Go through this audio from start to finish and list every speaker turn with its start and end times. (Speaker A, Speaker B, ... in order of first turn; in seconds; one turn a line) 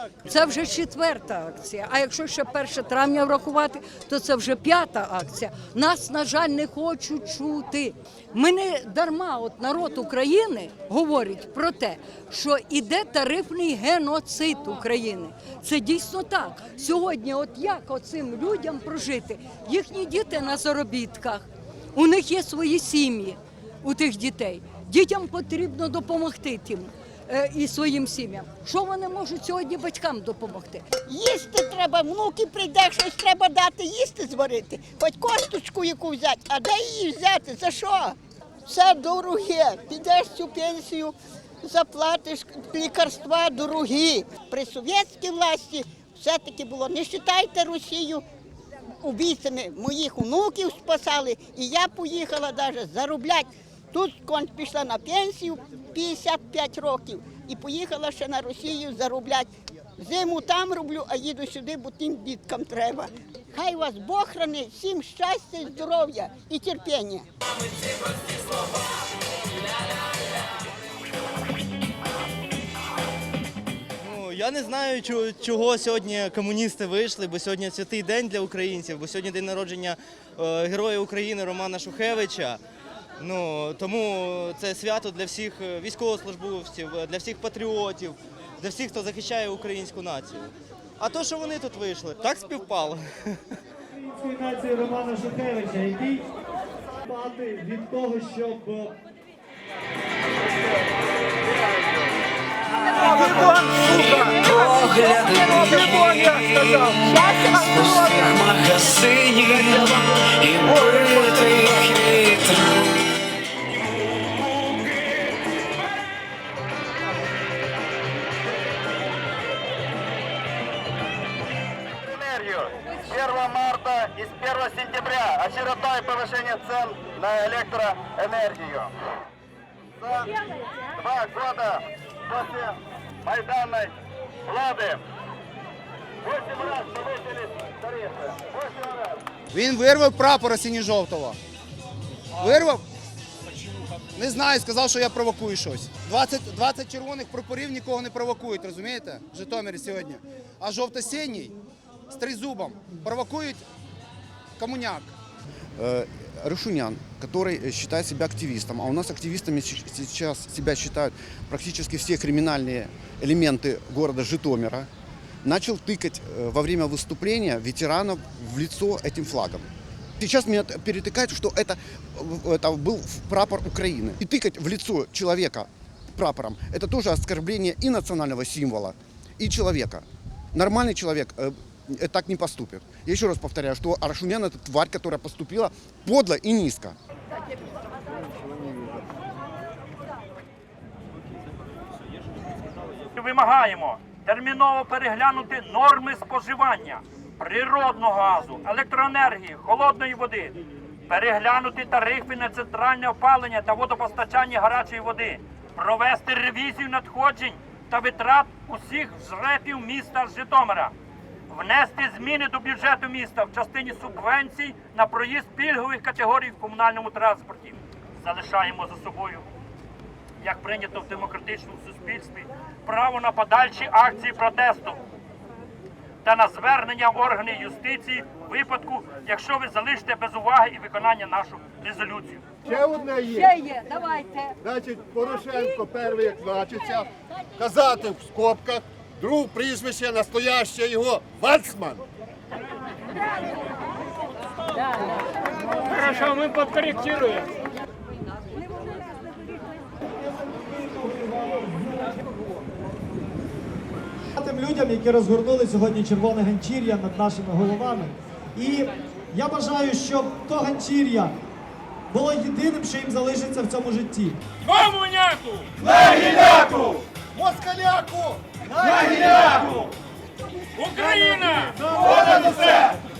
Speaker A: 0.2-30.8
Speaker B: 31.1-48.2
Speaker B: 49.0-67.3
Speaker C: 74.0-82.6
Speaker C: 83.2-93.6
Speaker D: 93.9-96.3
Speaker D: 97.0-99.0
Speaker C: 103.0-104.4
Speaker E: 103.8-112.8
Speaker F: 122.1-128.9
Speaker F: 131.0-131.8
Speaker F: 132.3-132.7
Speaker F: 133.2-133.9
Speaker F: 134.5-135.0
Speaker F: 136.3-138.3
Speaker G: 139.5-141.4
Speaker G: 142.4-142.8
Speaker G: 144.1-151.6
Speaker G: 152.1-153.6
Speaker G: 154.6-155.1
Speaker H: 155.8-164.9
Speaker H: 165.4-169.7
Speaker H: 170.2-186.9
Speaker I: 193.2-210.9
Speaker I: 211.5-219.4
Speaker I: 220.4-225.0
Speaker I: 226.2-232.4
Speaker J: 232.7-233.4
Speaker A: 232.7-234.5
Speaker J: 234.6-242.0
Speaker I: 246.1-247.4
Speaker D: 250.2-252.2
Speaker D: 254.3-261.3
Speaker D: 262.1-264.4
Speaker I: 264.6-265.7
Speaker D: 265.9-269.7
Speaker I: 270.8-271.9
Speaker D: 271.9-272.8